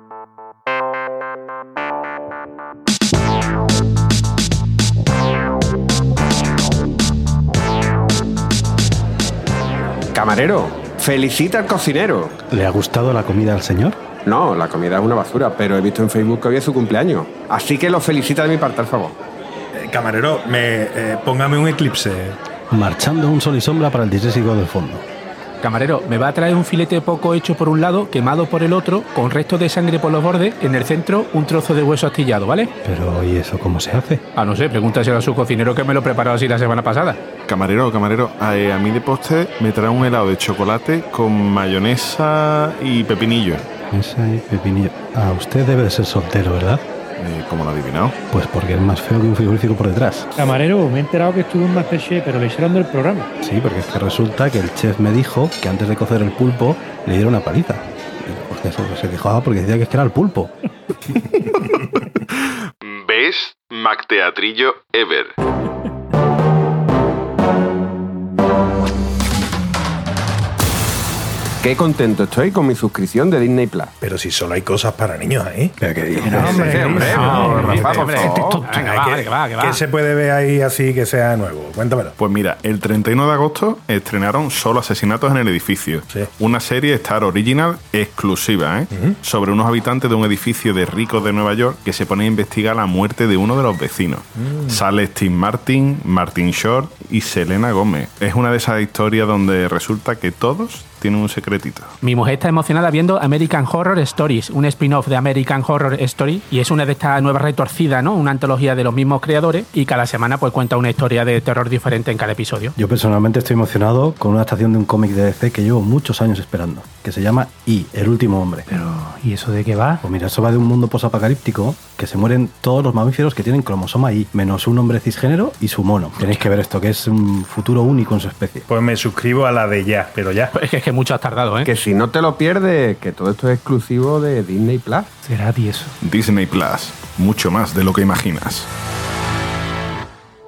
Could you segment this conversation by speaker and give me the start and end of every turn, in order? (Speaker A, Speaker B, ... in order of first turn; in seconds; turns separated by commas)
Speaker A: 10.1-12.4, Speaker B: 12.5-14.0, Speaker A: 14.2-19.2, Speaker C: 19.8-22.4, Speaker B: 22.7-25.1, Speaker D: 25.6-32.7, Speaker B: 32.8-34.2, Speaker D: 34.4-37.2, Speaker E: 37.5-43.6, Speaker B: 43.9-46.9, Speaker E: 47.2-48.2, Speaker B: 48.3-50.3, Speaker F: 50.4-53.3, Speaker B: 53.4-60.5, Speaker E: 61.4-61.8, Speaker E: 62.3-65.3, Speaker A: 71.6-74.0, Speaker C: 74.0-82.2, Speaker B: 75.8-77.4, Speaker F: 76.2-77.8, Speaker A: 76.3-78.6, Speaker D: 77.1-79.8, Speaker B: 78.2-78.7, Speaker E: 82.2-101.9, Speaker C: 88.9-89.2, Speaker D: 102.0-112.8, Speaker B: 112.8-118.7, Speaker F: 119.7-120.0, Speaker B: 120.0-128.6, Speaker C: 128.7-130.5, Speaker D: 130.5-131.7, Speaker A: 131.6-135.2, Speaker E: 136.0-138.7